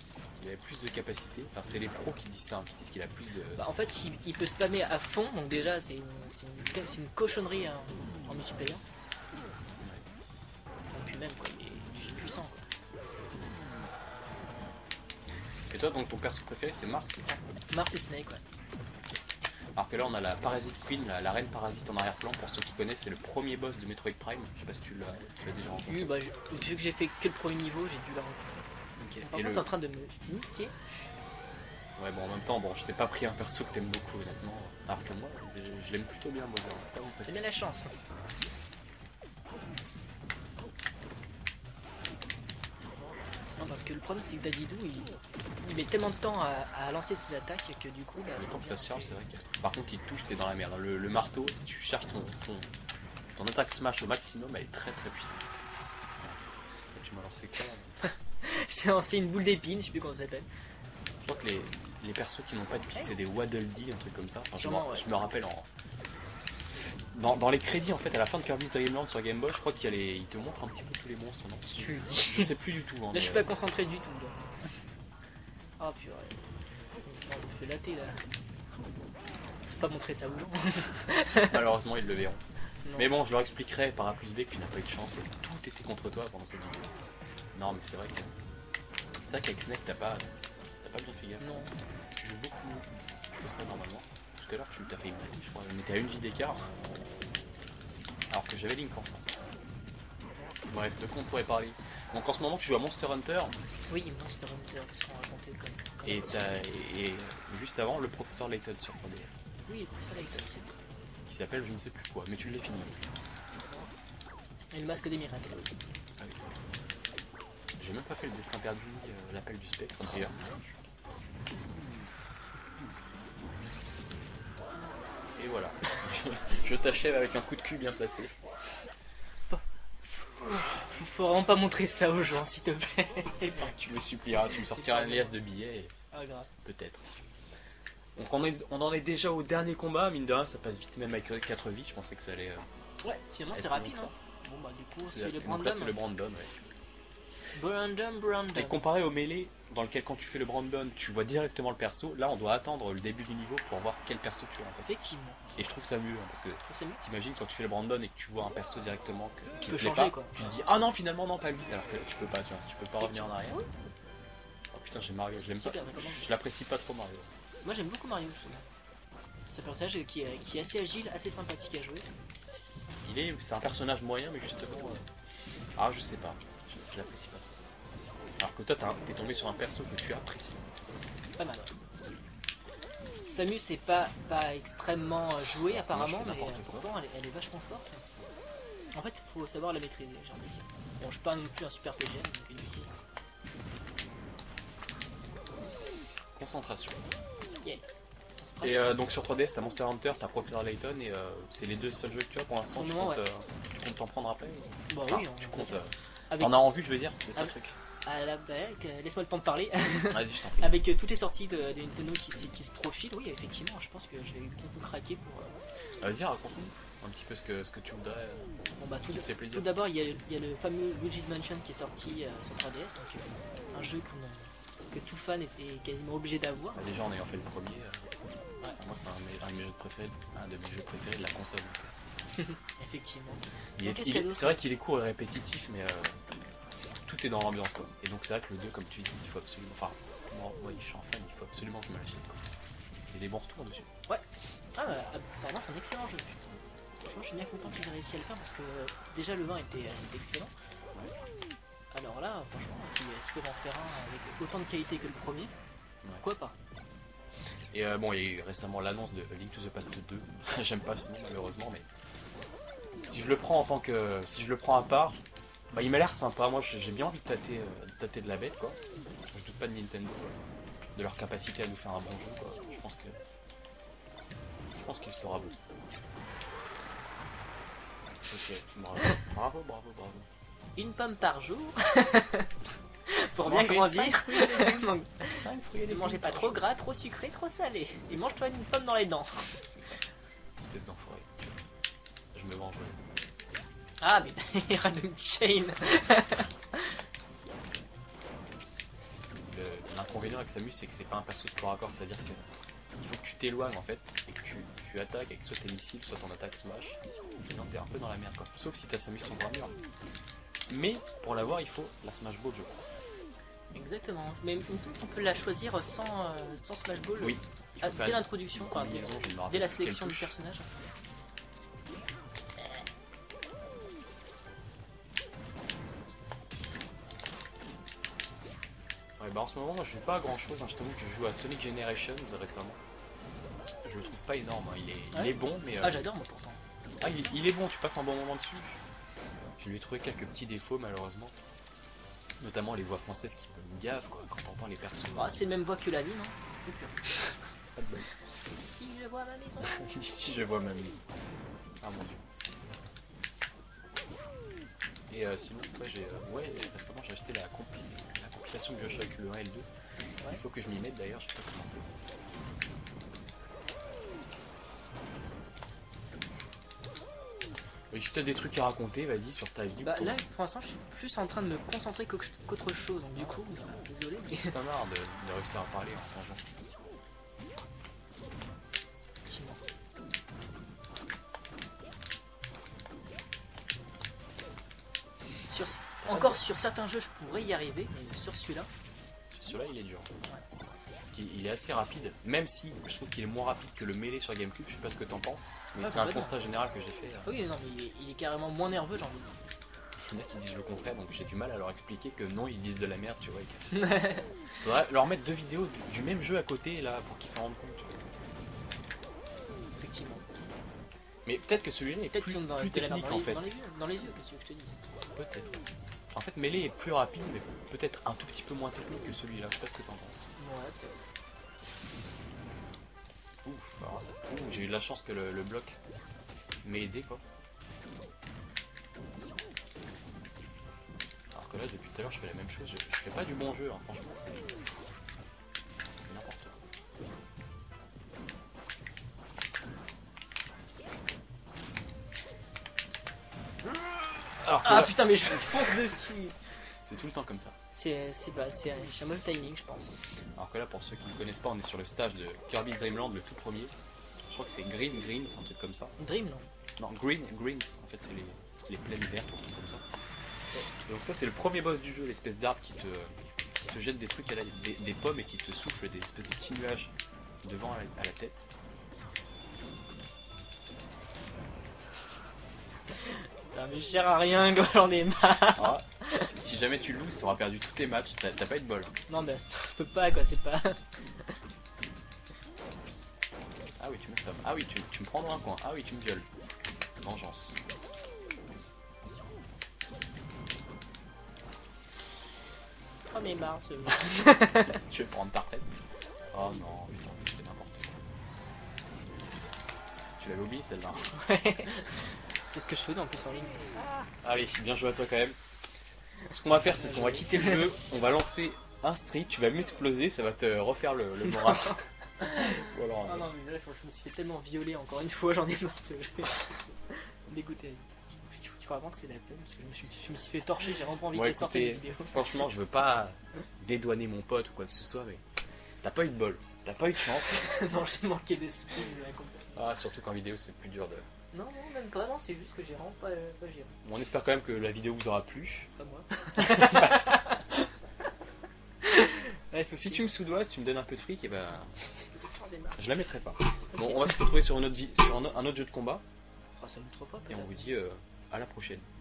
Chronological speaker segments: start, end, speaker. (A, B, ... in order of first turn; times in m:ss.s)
0:00.4-0:03.6 A
0:03.6-0:08.8 B
0:09.8-0:10.0 A
0:10.9-0:12.6 B
0:15.7-0:17.4 A
0:17.7-0:18.4 B
0:19.8-0:26.1 A
0:25.8-0:28.7 B
0:29.0-0:29.7 A
0:29.2-0:30.8 B
0:32.0-0:37.4 A
0:37.3-0:38.0 B
0:43.6-0:49.2 B
0:48.4-0:52.7 A
0:53.3-0:55.5 A
0:57.0-0:58.0 A
0:58.0-1:00.5 B
1:01.2-1:05.7 A
1:04.5-1:05.3 B
1:07.1-1:13.5 A
1:11.8-1:12.5 B
1:13.1-1:14.6 B
1:15.8-1:18.2 B
1:19.7-1:21.6 B
1:21.4-1:22.4 A
1:23.0-1:26.9 A
1:27.5-1:28.3 A
1:29.3-1:30.3 A
1:30.8-1:36.7 A
1:31.4-1:31.7 B
1:38.3-1:39.4 A
1:40.7-1:43.6 A
1:43.9-1:46.6 B
1:46.0-1:49.5 A
1:49.7-1:50.7 B
1:51.3-1:53.0 A
1:54.7-1:55.7 B
1:56.2-1:56.6 A
1:57.8-2:00.5 A
2:05.4-2:08.4 A
2:09.5-2:13.7 B
2:13.6-2:15.9 A
2:14.5-2:15.4 B
2:16.1-2:16.5 B
2:16.6-2:17.0 A
2:18.2-2:22.7 A
2:23.0-2:26.0 B
2:23.5-2:24.1 A
2:25.1-2:26.5 A
2:27.5-2:28.8 B
2:28.6-2:34.9 A
2:34.8-2:35.5 B
2:35.6-2:43.6 A
2:36.6-2:37.0 B
2:39.6-2:40.5 B
2:43.0-2:43.7 B
2:44.7-2:47.3 A
2:45.4-2:46.3 B
2:47.6-2:48.7 B
2:49.5-2:52.1 B
2:53.0-2:55.1 A
2:55.8-2:57.6 A
2:58.4-3:00.6 A
3:01.4-3:01.8 B
3:03.3-3:08.0 B
3:05.6-3:06.9 A
3:08.9-3:13.0 B
3:16.4-3:17.0 A
3:18.4-3:19.0 B
3:18.6-3:27.8 A
3:22.7-3:23.2 B
3:24.9-3:26.6 B
3:28.0-3:35.6 B
3:30.0-3:30.7 A
3:36.0-3:39.7 A
3:38.8-3:46.8 B
3:46.8-3:48.1 A
3:48.8-3:52.0 A
3:52.3-3:54.6 B
3:53.8-3:56.2 A
3:57.0-4:02.5 A
4:03.1-4:03.9 A
4:04.1-4:10.5 B
4:11.9-4:15.5 B
4:16.2-4:16.6 B
4:17.7-4:21.9 A
4:23.0-4:28.8 A
4:29.3-4:30.4 A
4:31.0-4:33.2 A
4:34.8-4:35.6 A
4:38.2-4:40.3 A
4:40.8-4:42.5 B
4:43.1-4:45.3 B
4:43.4-4:46.7 A
4:45.9-4:49.5 B
4:48.0-4:48.4 A
4:49.7-4:50.0 A
4:50.6-4:51.6 A
4:52.3-4:53.0 A
4:54.0-4:57.0 B
4:59.5-5:09.8 A
5:10.7-5:12.9 A
5:13.7-5:21.0 B
5:17.2-5:20.3 A
5:29.2-5:32.8 A
5:33.8-5:36.1 A
5:35.1-5:37.3 B
5:37.0-5:38.8 A
5:39.6-5:41.4 A
5:42.4-5:45.4 A
5:45.1-5:47.2 B
5:47.8-5:48.2 A
5:48.5-5:49.8 B
5:49.6-5:51.0 A
5:51.8-5:52.2 A
5:55.1-5:59.7 A
6:00.3-6:01.9 A
6:07.9-6:10.2 A
6:09.8-6:14.5 B
6:14.3-6:16.4 A
6:19.2-6:19.6 B
6:25.5-6:28.7 B
6:26.0-6:26.4 A
6:29.3-6:30.1 A
6:31.0-6:37.3 A
6:35.8-6:36.4 B
6:37.2-6:39.4 B
6:40.0-6:43.7 A
6:43.7-6:44.3 B
6:44.6-6:48.0 A
6:49.7-6:50.3 B
6:51.3-6:53.6 A
6:52.1-6:54.8 B
6:55.1-6:55.6 A
6:56.1-7:00.3 A
7:00.4-7:01.0 B
7:03.4-7:05.8 A
7:06.6-7:07.2 A
7:11.3-7:15.0 A
7:16.0-7:16.6 A
7:23.9-7:25.9 A
7:24.6-7:26.4 B
7:26.8-7:27.6 A
7:27.7-7:30.0 B
7:30.4-7:35.9 A
7:36.0-7:36.5 B
7:36.8-7:39.8 A
7:40.8-7:48.5 A
7:52.9-7:56.2 B
7:55.5-7:58.9 A
7:59.1-8:01.4 B
8:03.8-8:06.3 A
8:07.0-8:07.6 A
8:13.0-8:14.7 B
8:14.6-8:15.7 A
8:16.3-8:18.0 A
8:20.2-8:21.1 A
8:21.1-8:24.1 B
8:24.2-8:25.4 A
8:26.3-8:31.8 A
8:26.5-8:27.7 B
8:31.2-8:42.5 B
8:32.4-8:33.3 A
8:41.1-8:45.2 A
8:45.8-8:47.6 A
8:47.1-8:49.5 B
8:49.6-8:51.1 A
8:51.3-8:53.7 B
8:53.8-8:55.7 A
8:55.8-8:57.4 B
8:56.4-8:57.6 A
8:58.8-9:00.0 B
8:59.8-9:02.1 A
9:02.1-9:02.8 B
9:02.8-9:06.0 A
9:03.7-9:04.3 B
9:06.6-9:07.7 B
9:07.3-9:08.9 A